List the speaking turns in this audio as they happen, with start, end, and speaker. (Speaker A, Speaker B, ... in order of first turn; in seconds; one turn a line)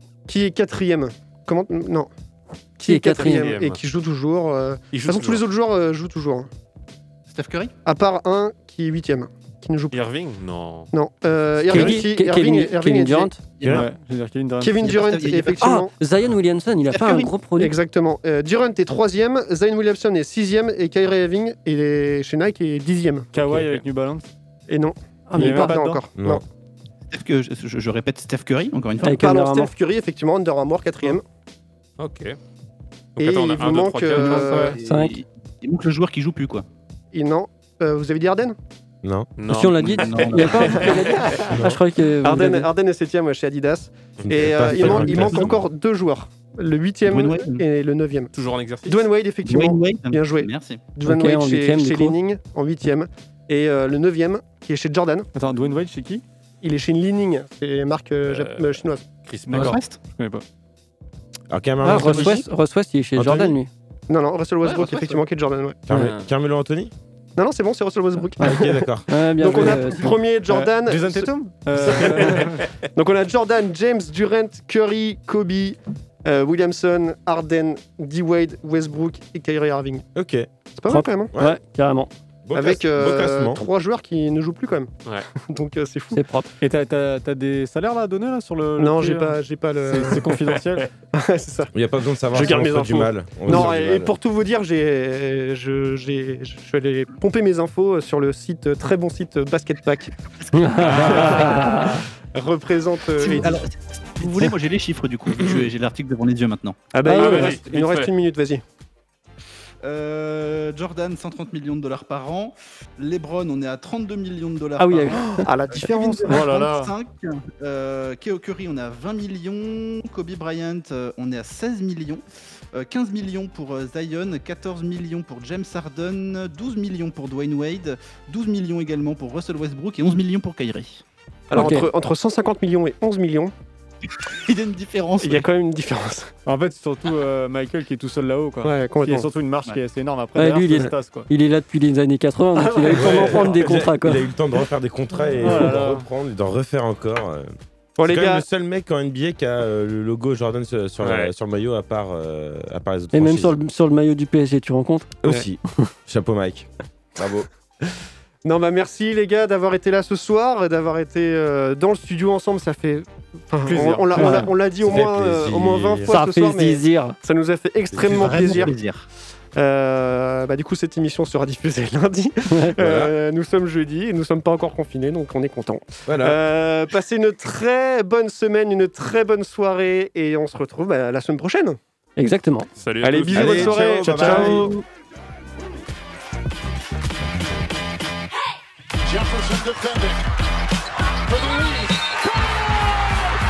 Speaker A: 0.3-2.1
Speaker A: 2.8-6.5
Speaker B: 2.9-3.5
Speaker C: 3.1-3.8
Speaker C: 4.9-5.4
Speaker D: 7.3-7.7
Speaker A: 7.8-10.0
Speaker C: 9.9-10.9
Speaker A: 10.9-13.3
Speaker B: 11.7-13.4
Speaker D: 13.6-13.8
Speaker E: 13.7-15.2
Speaker A: 14.6-15.9
Speaker D: 14.8-15.7
Speaker B: 15.6-17.7
Speaker D: 16.9-17.3
Speaker A: 17.6-23.3
Speaker E: 23.3-24.3
Speaker C: 23.4-23.8
Speaker A: 24.7-26.4
Speaker B: 25.3-25.8
Speaker E: 25.4-26.0
Speaker F: 26.2-26.4
Speaker D: 27.1-29.2
Speaker B: 29.0-29.7
Speaker A: 29.1-31.2
Speaker C: 32.0-32.4
Speaker C: 33.2-34.7
Speaker A: 33.2-34.8
Speaker D: 34.2-36.7
Speaker E: 34.4-34.8
Speaker B: 34.8-35.2
Speaker A: 37.1-38.6
Speaker F: 39.0-39.3
Speaker C: 39.4-41.3
Speaker B: 39.5-42.7
Speaker D: 39.8-40.8
Speaker A: 40.8-41.4
Speaker F: 41.5-41.8
Speaker A: 42.2-48.3
Speaker F: 44.2-45.5
Speaker D: 44.7-45.5
Speaker D: 47.1-47.6
Speaker C: 48.3-49.1
Speaker A: 48.9-55.3
Speaker D: 49.5-50.8
Speaker B: 51.0-52.2
Speaker E: 55.3-56.2
Speaker A: 56.6-59.0
Speaker C: 58.3-59.8
Speaker E: 59.5-60.4
Speaker D: 59.5-60.0
Speaker F: 61.5-62.5
Speaker B: 61.8-63.7
Speaker F: 63.2-63.6
Speaker A: 64.1-65.8
Speaker D: 64.6-65.2
Speaker F: 65.9-66.9
Speaker C: 65.9-66.2
Speaker A: 67.4-71.3
Speaker B: 68.4-70.2
Speaker F: 68.4-69.1
Speaker E: 70.5-72.7
Speaker A: 71.9-80.1
Speaker F: 80.1-80.5
Speaker A: 80.8-81.3
Speaker B: 80.9-82.1
Speaker F: 81.3-81.6
Speaker F: 82.5-83.6
Speaker A: 82.5-86.3
Speaker B: 86.1-86.5
Speaker E: 86.6-90.9
Speaker A: 88.8-90.4
Speaker A: 91.1-91.7
Speaker F: 91.7-94.2
Speaker A: 92.3-100.1
Speaker B: 100.5-102.0
Speaker D: 100.8-101.5
Speaker A: 100.8-103.7
Speaker C: 101.0-101.2
Speaker D: 103.2-106.8
Speaker A: 104.2-104.5
Speaker A: 106.9-108.6
Speaker C: 107.0-108.1
Speaker B: 107.0-107.6
Speaker D: 109.8-131.0
Speaker B: 114.8-115.4
Speaker A: 115.2-116.5
Speaker E: 116.3-116.9
Speaker A: 131.5-133.5
Speaker B: 131.5-131.9
Speaker D: 134.3-135.5
Speaker A: 135.2-136.3
Speaker E: 136.5-141.3
Speaker A: 138.6-139.3
Speaker B: 140.4-144.2
Speaker E: 142.6-143.8
Speaker F: 142.9-147.5
Speaker E: 145.4-146.1
Speaker A: 148.0-148.4
Speaker F: 148.1-153.6
Speaker C: 151.0-151.3
Speaker B: 153.1-155.2
Speaker F: 155.2-157.5
Speaker A: 158.4-168.8
Speaker E: 163.6-164.5
Speaker B: 164.2-164.5
Speaker F: 164.8-166.2
Speaker B: 166.1-167.2
Speaker D: 167.9-169.1
Speaker F: 168.0-168.4
Speaker A: 169.6-181.8
Speaker B: 172.5-172.8
Speaker F: 172.8-173.1
Speaker F: 176.1-176.4
Speaker B: 182.2-182.7
Speaker C: 182.8-184.3
Speaker A: 183.0-184.8
Speaker F: 183.3-184.7
Speaker B: 183.6-184.7
Speaker G: 189.0-190.2
Speaker G: 191.3-192.2